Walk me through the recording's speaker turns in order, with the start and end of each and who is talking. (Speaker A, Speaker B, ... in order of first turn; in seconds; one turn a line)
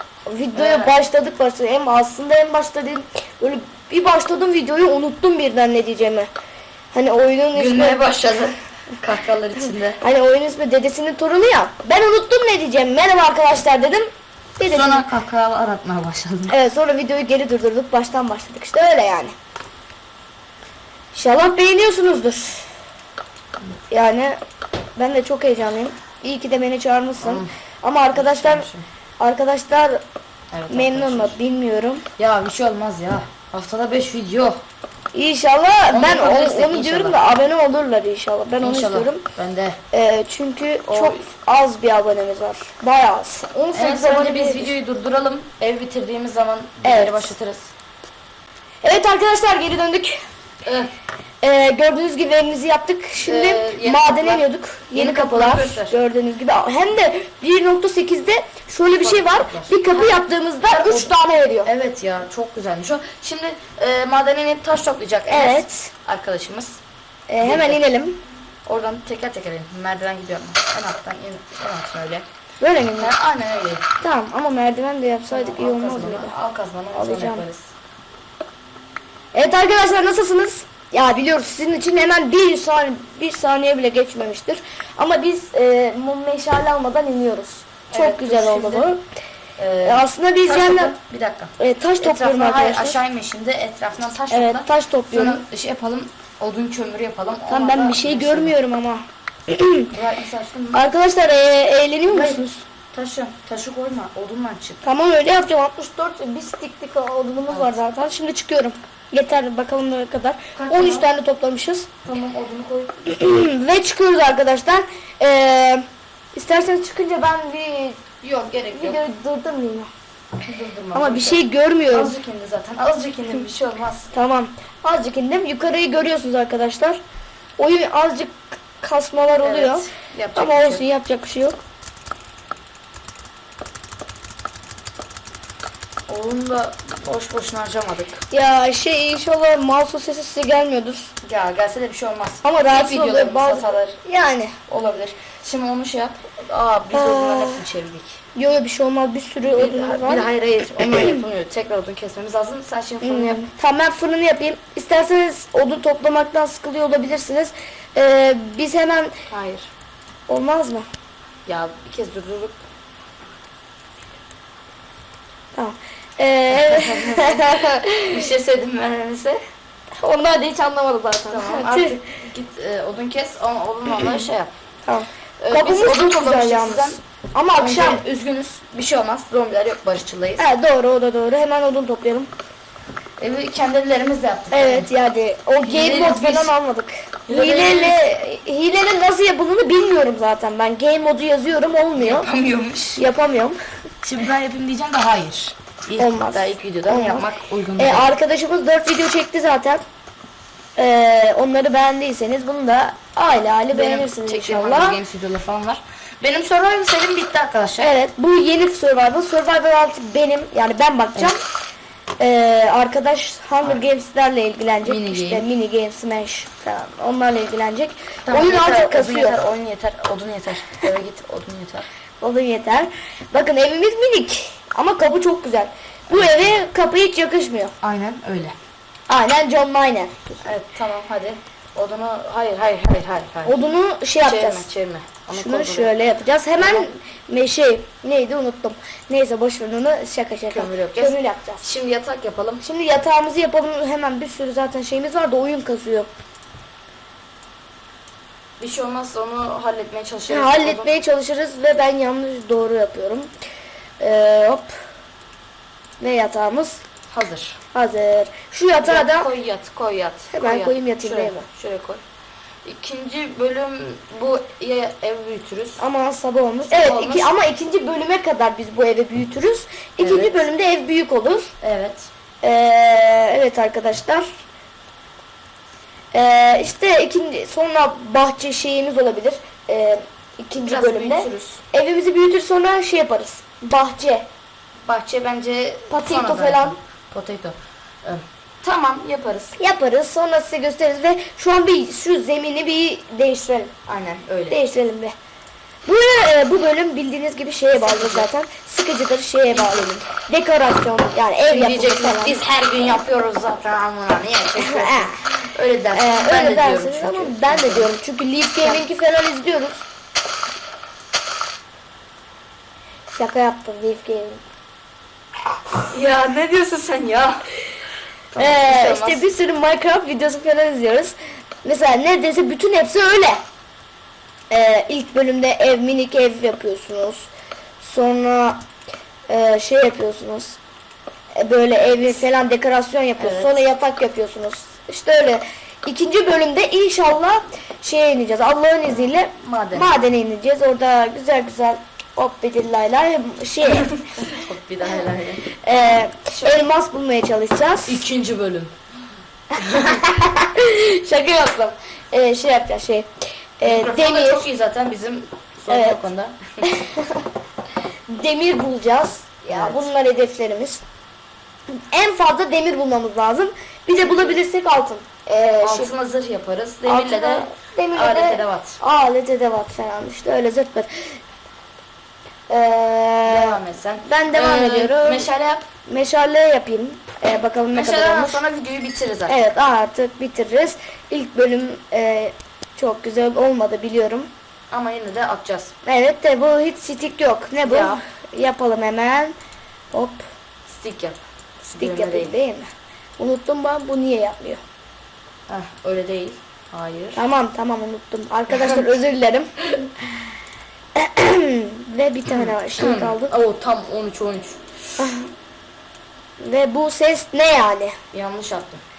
Speaker A: 0.3-6.3
Speaker B: 0.6-0.9
Speaker A: 6.9-8.1
Speaker B: 7.5-10.0
Speaker A: 10.0-15.1
Speaker B: 14.7-16.6
Speaker A: 16.5-19.3
Speaker A: 21.1-22.6
Speaker A: 23.9-24.4
Speaker A: 25.0-28.7
Speaker B: 27.2-27.5
Speaker B: 28.1-28.9
Speaker A: 29.2-30.0
Speaker B: 30.5-31.4
Speaker A: 30.7-32.0
Speaker B: 32.2-34.6
Speaker A: 35.1-39.2
Speaker B: 35.9-37.3
Speaker B: 38.6-39.8
Speaker A: 39.9-44.7
Speaker B: 40.9-41.2
Speaker B: 43.7-47.7
Speaker A: 46.8-47.3
Speaker A: 48.8-50.2
Speaker B: 50.6-50.9
Speaker A: 51.4-61.7
Speaker B: 53.2-55.9
Speaker B: 58.9-60.1
Speaker B: 60.6-61.1
Speaker B: 61.6-66.8
Speaker A: 65.3-65.9
Speaker A: 67.3-68.2
Speaker B: 67.4-67.8
Speaker B: 68.7-72.3
Speaker A: 72.6-73.1
Speaker B: 73.0-73.8
Speaker A: 74.0-76.3
Speaker B: 75.3-77.7
Speaker A: 76.9-77.5
Speaker A: 79.3-89.0
Speaker B: 87.9-88.9
Speaker B: 89.6-98.6
Speaker A: 89.8-91.0
Speaker A: 91.6-93.0
Speaker A: 94.3-95.4
Speaker A: 97.5-99.9
Speaker B: 99.9-100.8
Speaker A: 100.7-102.6
Speaker B: 102.1-104.8
Speaker A: 104.8-111.9
Speaker B: 107.5-107.8
Speaker B: 110.6-111.1
Speaker B: 112.0-113.1
Speaker A: 113.1-118.0
Speaker B: 118.2-119.0
Speaker A: 118.7-119.9
Speaker B: 120.4-124.1
Speaker A: 120.9-122.2
Speaker A: 124.1-127.0
Speaker A: 127.6-131.6
Speaker B: 129.4-130.8
Speaker B: 136.1-138.2
Speaker A: 138.3-141.1
Speaker B: 141.2-144.0
Speaker A: 142.4-144.6
Speaker B: 144.7-148.2
Speaker A: 146.9-147.6
Speaker A: 148.4-150.3
Speaker B: 149.5-153.4
Speaker A: 150.8-151.2
Speaker A: 153.0-159.2
Speaker B: 159.3-159.7
Speaker A: 160.3-160.9
Speaker B: 161.5-162.6
Speaker A: 165.6-168.2
Speaker B: 166.5-169.4
Speaker A: 170.0-172.0
Speaker B: 171.3-174.5
Speaker A: 174.9-178.1
Speaker B: 175.4-177.0
Speaker B: 177.6-180.5
Speaker A: 180.4-182.3
Speaker B: 183.2-184.9
Speaker A: 184.5-192.3
Speaker B: 185.6-186.5
Speaker B: 187.3-188.1
Speaker B: 192.0-193.1
Speaker A: 193.0-193.6
Speaker B: 194.0-198.1
Speaker A: 196.0-199.8
Speaker A: 200.8-205.0
Speaker B: 203.7-207.9
Speaker A: 207.8-211.4
Speaker A: 212.2-219.4
Speaker B: 214.8-215.4
Speaker B: 218.3-221.9
Speaker A: 222.2-227.8
Speaker B: 226.1-226.6
Speaker B: 227.8-228.6
Speaker A: 229.1-230.3
Speaker B: 230.4-233.6
Speaker A: 233.5-234.7
Speaker B: 234.2-235.9
Speaker A: 235.3-241.6
Speaker B: 236.6-236.9
Speaker B: 240.5-242.6
Speaker A: 242.6-246.1
Speaker B: 248.6-251.0
Speaker A: 250.3-253.3
Speaker A: 254.0-254.7
Speaker A: 256.0-256.8
Speaker B: 257.1-257.6
Speaker A: 257.7-259.3
Speaker B: 258.8-262.0
Speaker A: 260.3-261.5
Speaker B: 262.6-265.8
Speaker A: 265.8-271.5
Speaker B: 266.7-267.3
Speaker B: 270.0-270.5
Speaker B: 271.6-272.1
Speaker A: 272.4-274.3
Speaker A: 276.1-284.3
Speaker B: 280.6-281.6
Speaker B: 284.8-289.6
Speaker A: 285.9-286.8
Speaker A: 289.6-293.7
Speaker B: 293.9-294.6
Speaker A: 294.5-295.1
Speaker A: 295.9-302.4
Speaker B: 297.7-298.3
Speaker B: 299.5-300.1
Speaker B: 301.5-307.9
Speaker A: 304.6-305.4
Speaker A: 305.9-309.8
Speaker B: 308.6-308.8
Speaker A: 313.1-314.4
Speaker B: 315.9-317.5
Speaker B: 318.3-319.3
Speaker A: 318.4-323.4
Speaker A: 324.5-327.3
Speaker A: 327.8-328.6
Speaker A: 329.3-330.6
Speaker A: 331.3-344.0
Speaker B: 331.8-332.2
Speaker B: 333.2-333.6
Speaker B: 339.4-340.0
Speaker B: 344.1-345.5
Speaker A: 345.6-348.1
Speaker B: 347.9-348.7
Speaker A: 349.6-354.5
Speaker B: 353.6-356.6
Speaker A: 355.7-356.0
Speaker A: 356.6-357.2
Speaker A: 358.1-360.8
Speaker B: 359.5-359.9
Speaker A: 361.7-365.9
Speaker B: 364.0-364.4
Speaker B: 365.6-368.8
Speaker A: 366.9-371.2
Speaker A: 372.5-375.3
Speaker B: 373.2-375.7
Speaker A: 375.9-378.4
Speaker B: 377.7-379.4
Speaker A: 379.3-384.3
Speaker B: 384.7-385.7
Speaker A: 385.8-389.4
Speaker B: 387.6-388.0
Speaker A: 389.9-390.2
Speaker B: 390.7-391.2
Speaker A: 391.6-394.6
Speaker B: 391.8-392.4
Speaker B: 395.5-397.2
Speaker A: 397.1-399.5
Speaker A: 401.0-403.3
Speaker B: 402.3-404.6
Speaker A: 405.0-405.3
Speaker A: 406.4-408.0
Speaker B: 408.1-408.8